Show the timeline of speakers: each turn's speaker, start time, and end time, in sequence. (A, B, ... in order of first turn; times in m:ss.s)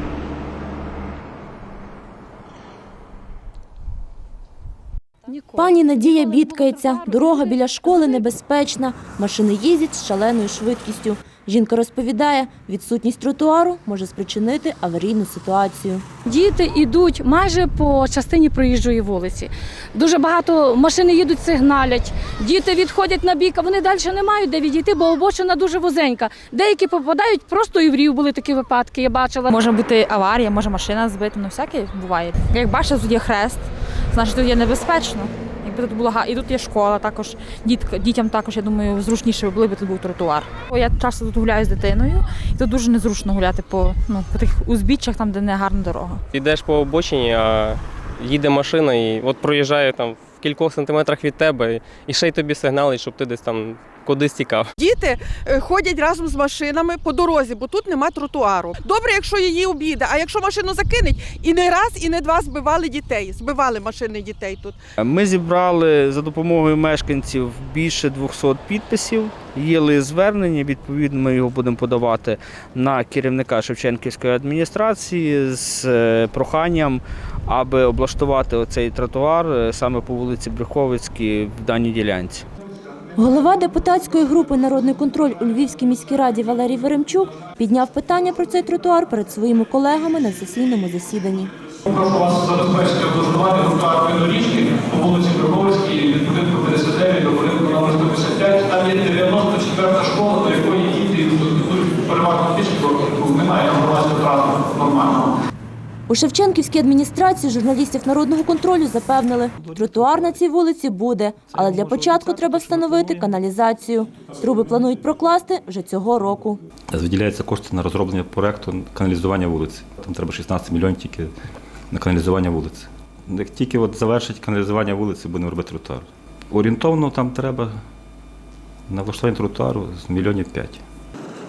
0:05.3-0:08.2 A
0:05.5-0:16.0 B
0:16.2-0:29.5 A
0:29.5-0:46.2 C
0:46.3-0:54.6 D
0:54.8-1:04.8 E
1:05.0-1:22.4 F
1:23.2-1:31.5 B
1:31.9-1:45.3 G
1:46.1-1:56.6 B
1:56.9-2:01.3 H
2:01.9-2:07.7 H
2:08.9-2:10.8 H